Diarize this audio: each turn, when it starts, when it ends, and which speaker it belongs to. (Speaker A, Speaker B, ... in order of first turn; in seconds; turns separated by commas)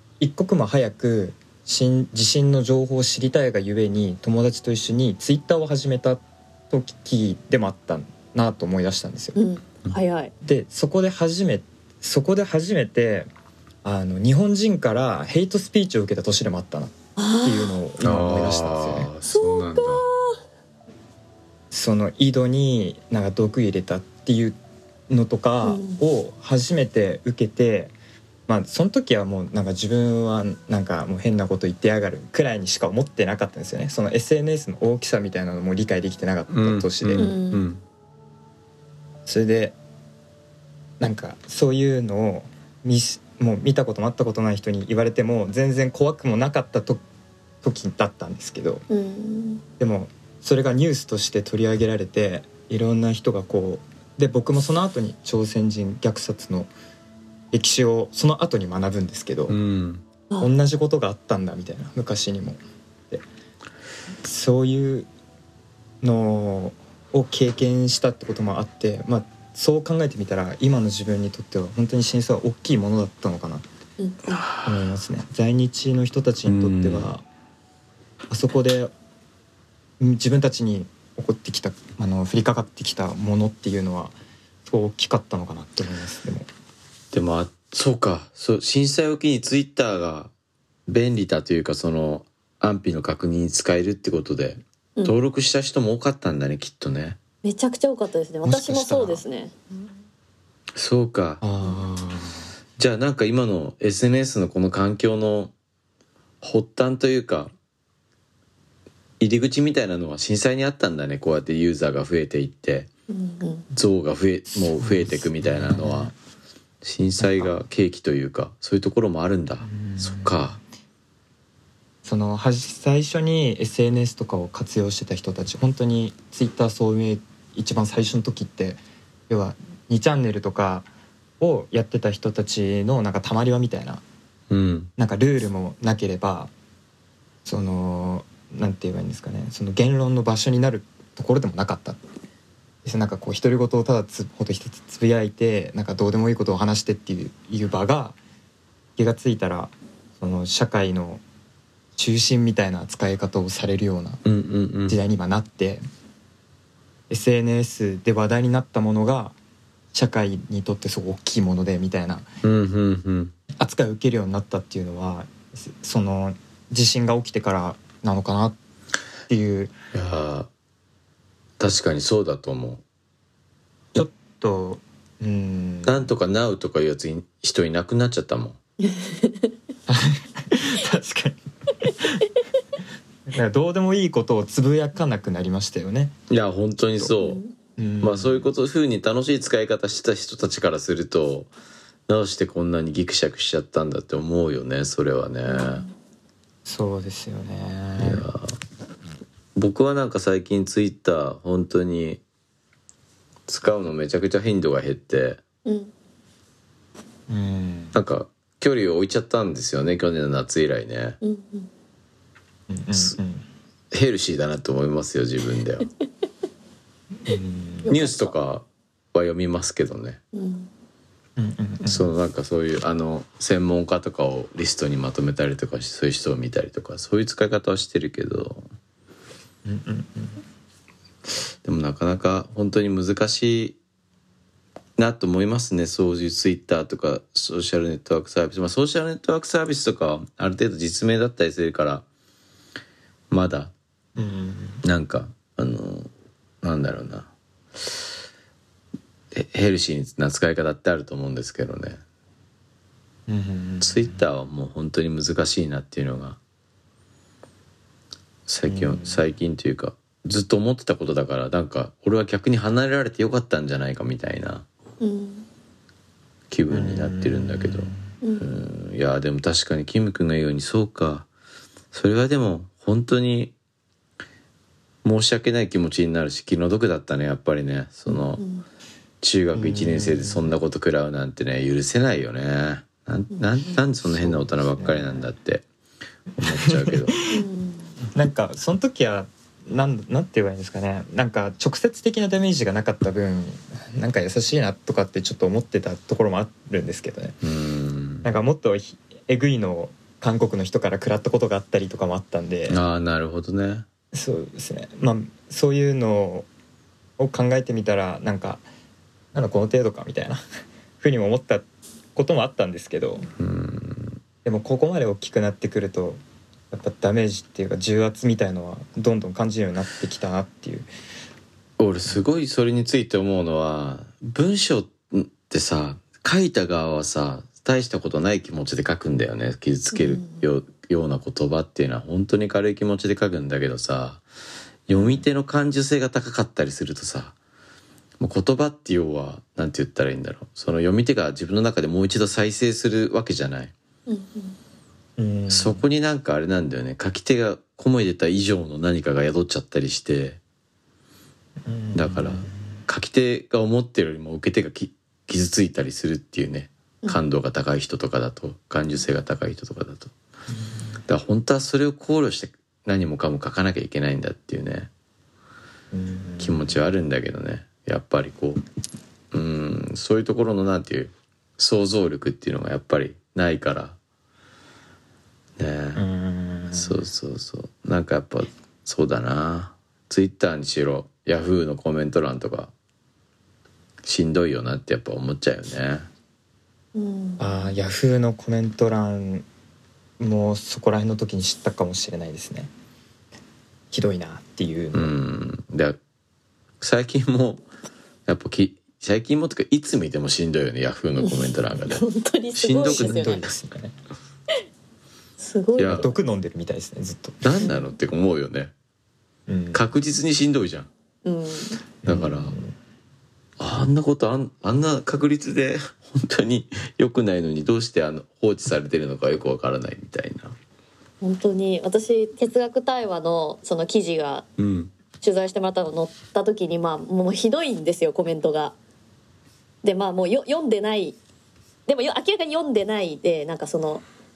Speaker A: 0.2-9.3, Speaker B: 9.3-10.3, Speaker A: 10.4-13.3, Speaker A: 13.8-19.1, Speaker B: 17.1-17.8, Speaker C: 18.0-20.0, Speaker B: 19.3-20.4, Speaker A: 21.7-24.6, Speaker A: 25.1-27.9, Speaker B: 25.6-26.0, Speaker A: 28.5-37.4, Speaker C: 36.5-37.8, Speaker B: 37.2-37.6, Speaker A: 39.2-39.8, Speaker A: 41.0-47.0, Speaker A: 47.6-48.8, Speaker B: 48.9-49.6, Speaker A: 49.8-56.7, Speaker A: 57.5-59.6, Speaker C: 59.5-60.0, Speaker A: 60.4-63.2, Speaker A: 64.2-65.1, Speaker A: 66.0-73.7, Speaker B: 74.0-74.4, Speaker C: 74.3-74.8, Speaker A: 74.6-77.2, Speaker C: 76.4-77.1, Speaker A: 78.3-78.9, Speaker A: 80.0-84.1, Speaker A: 84.7-86.5, Speaker C: 87.1-90.3, Speaker C: 90.9-97.2, Speaker B: 97.4-99.5, Speaker A: 98.4-99.2, Speaker C: 100.7-101.4, Speaker A: 101.4-102.4, Speaker C: 102.8-105.5, Speaker C: 106.4-107.5, Speaker C: 109.2-112.9, Speaker B: 113.1-113.7, Speaker C: 113.7-116.1, Speaker A: 114.7-116.1, Speaker C: 116.8-120.6, Speaker A: 117.2-117.5, Speaker A: 119.6-120.6, Speaker A: 122.0-130.9, Speaker A: 131.4-134.0, Speaker C: 134.5-134.9, Speaker A: 135.0-136.5, Speaker A: 137.4-142.0, Speaker A: 142.8-148.2, Speaker A: 149.0-151.2, Speaker A: 151.9-154.2, Speaker C: 154.2-155.0, Speaker A: 154.9-155.8, Speaker A: 157.1-159.3, Speaker A: 159.9-162.3, Speaker C: 162.4-163.3, Speaker A: 163.6-168.6, Speaker A: 169.3-169.7, Speaker C: 169.9-170.5, Speaker C: 171.6-172.8, Speaker A: 173.9-176.1, Speaker C: 175.8-178.6, Speaker B: 178.8-179.5, Speaker A: 179.9-182.2, Speaker A: 183.3-186.1, Speaker C: 186.3-187.4, Speaker B: 187.2-187.5, Speaker A: 187.8-188.4, Speaker C: 188.0-191.5, Speaker C: 192.1-195.8, Speaker B: 195.4-195.9, Speaker A: 196.6-198.2, Speaker C: 198.0-198.6, Speaker C: 199.5-202.2, Speaker C: 203.5-205.4, Speaker B: 205.6-205.9, Speaker A: 207.3-207.9, Speaker C: 207.9-211.2, Speaker B: 211.2-211.7, Speaker A: 212.7-213.4, Speaker C: 213.9-215.9, Speaker A: 217.2-217.9, Speaker B: 217.8-218.3, Speaker C: 217.9-220.2, Speaker B: 220.3-220.7, Speaker A: 221.4-222.1, Speaker C: 221.8-228.6, Speaker A: 229.6-230.4, Speaker C: 231.6-233.8, Speaker C: 235.0-242.0, Speaker C: 243.3-243.7, Speaker A: 244.2-244.8, Speaker C: 244.8-246.1, Speaker C: 246.6-247.3, Speaker C: 249.3-252.0, Speaker A: 253.3-254.2, Speaker C: 253.8-256.4, Speaker C: 258.5-264.6, Speaker A: 258.7-259.2, Speaker B: 265.0-265.5, Speaker C: 266.5-271.3, Speaker A: 266.7-268.0, Speaker C: 271.9-273.5, Speaker C: 275.0-278.4, Speaker B: 278.4-278.6, Speaker C: 279.2-285.6, Speaker A: 279.5-280.6, Speaker A: 283.8-285.3, Speaker C: 286.4-287.2, Speaker A: 286.4-287.3, Speaker B: 287.3-287.9, Speaker A: 288.1-297.4, Speaker C: 297.4-298.2, Speaker A: 298.2-302.8, Speaker C: 302.7-303.8, Speaker A: 304.1-306.5, Speaker A: 307.2-308.6, Speaker A: 309.3-310.4, Speaker A: 311.0-313.2, Speaker C: 313.4-314.2, Speaker A: 314.4-320.9, Speaker C: 321.8-334.2, Speaker B: 329.9-330.4, Speaker C: 334.9-337.3, Speaker A: 334.9-335.2, Speaker C: 338.2-343.7, Speaker B: 344.1-344.6, Speaker A: 345.2-345.8, Speaker C: 345.5-350.4, Speaker A: 351.6-352.5, Speaker C: 351.9-360.1, Speaker A: 360.5-360.9, Speaker C: 361.1-364.9, Speaker A: 365.9-366.8, Speaker C: 366.4-368.6, Speaker C: 369.3-374.0, Speaker C: 375.6-376.0, Speaker A: 375.9-377.0, Speaker C: 376.7-382.7, Speaker C: 384.0-386.1, Speaker B: 386.9-387.6, Speaker A: 387.4-389.5, Speaker A: 390.2-392.7, Speaker A: 393.9-395.1, Speaker C: 394.9-396.0, Speaker C: 396.8-397.6, Speaker C: 398.3-403.4, Speaker B: 401.2-403.4, Speaker A: 402.8-403.9, Speaker B: 405.4-406.1, Speaker C: 405.8-406.1, Speaker A: 405.8-407.4, Speaker C: 407.4-408.7, Speaker A: 409.5-409.8, Speaker C: 409.7-410.9, Speaker B: 411.2-411.8, Speaker A: 412.0-412.7, Speaker C: 412.0-412.6, Speaker C: 413.6-420.5, Speaker B: 421.2-424.4, Speaker C: 424.6-424.9, Speaker B: 425.2-428.7, Speaker B: 429.8-431.2, Speaker B: 431.9-434.0